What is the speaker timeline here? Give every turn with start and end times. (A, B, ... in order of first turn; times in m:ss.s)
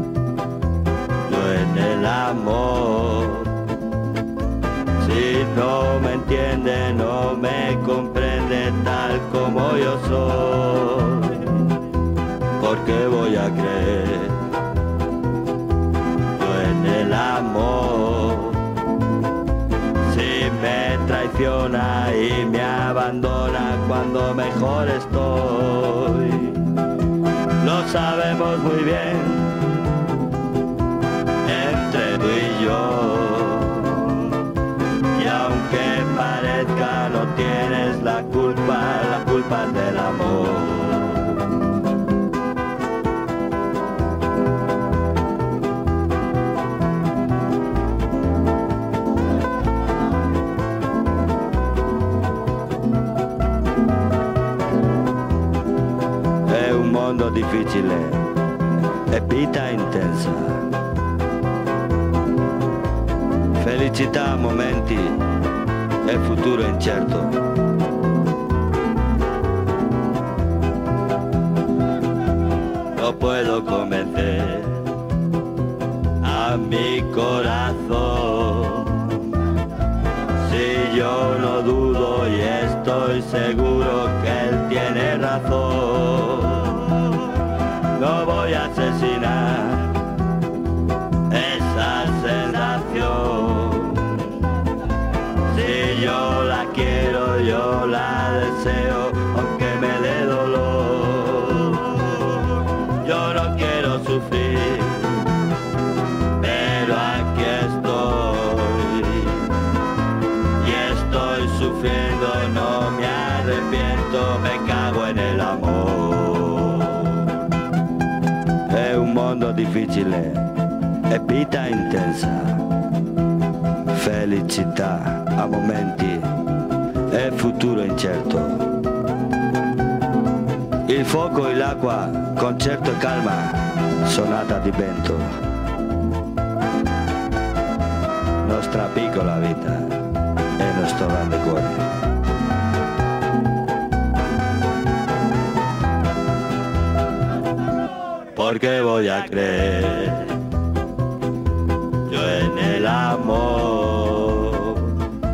0:01.3-0:03.5 A
0:05.0-0:11.4 A
0:12.6-0:14.4 A
0:16.4-0:18.6 A
0:20.0-0:26.6 A
0:27.6-0:29.5 A
0:31.4-0:34.3 A
0:35.2-0:41.4 A
0:56.5-0:58.2 A
0:59.1-1:00.6 A
1:03.6-1:05.2 A
1:06.1-1:07.4 A
1:13.0-1:14.8 A
1:16.2-1:19.1 A
1:20.4-1:27.3 A
1:28.0-1:29.9 A
1:31.3-1:34.1 A
1:35.5-1:42.5 A
1:43.0-1:45.2 A
1:46.4-1:49.5 A
1:50.6-1:57.4 A
1:58.7-2:00.5 A
2:01.1-2:02.6 A
2:03.9-2:06.3 A
2:07.1-2:08.7 A
2:10.9-2:15.3 A
2:18.4-2:20.0 A
2:20.6-2:21.8 A
2:28.4-2:30.4 A
2:32.1-2:34.9 A